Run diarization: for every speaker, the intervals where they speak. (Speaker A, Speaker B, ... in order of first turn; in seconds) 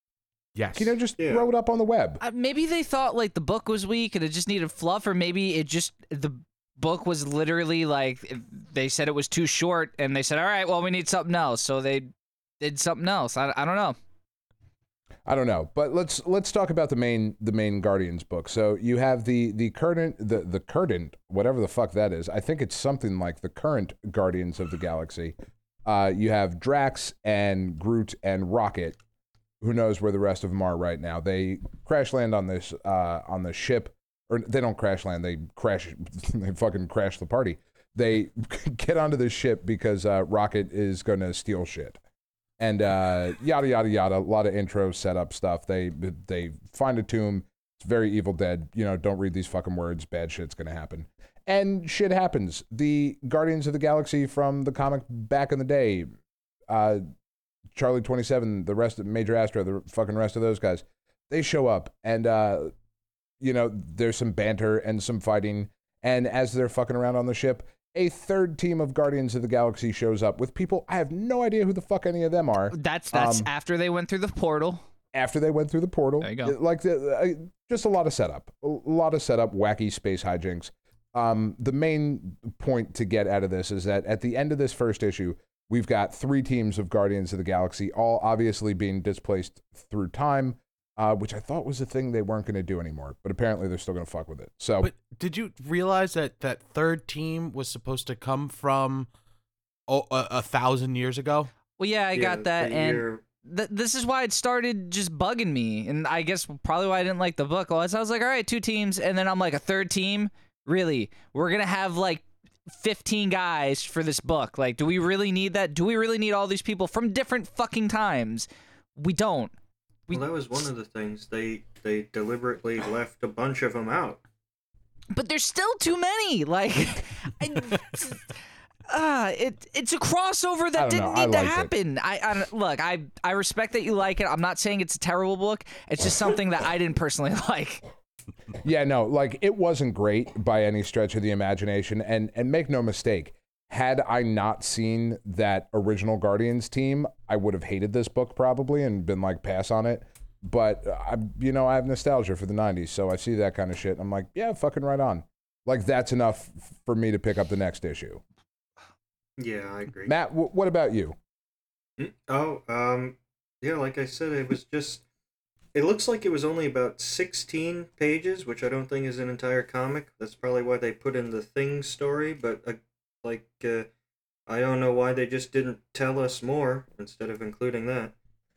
Speaker A: 0.6-0.9, 94.8-99.1, 99.9-101.5
Speaker B: 0.8-2.2, 15.3-29.0, 29.6-42.0, 42.6-56.1, 56.7-57.0, 57.7-62.7, 63.4-73.5, 75.1-94.9, 130.8-131.7, 138.6-158.2, 160.1-161.2
Speaker C: 1.2-1.5, 102.2-103.2, 120.1-124.2, 159.4-160.2, 162.0-165.0, 165.7-173.9, 174.5-178.1
Speaker D: 2.2-14.0, 72.7-74.8, 76.2-76.5, 101.8-119.5, 125.1-128.3, 128.9-137.8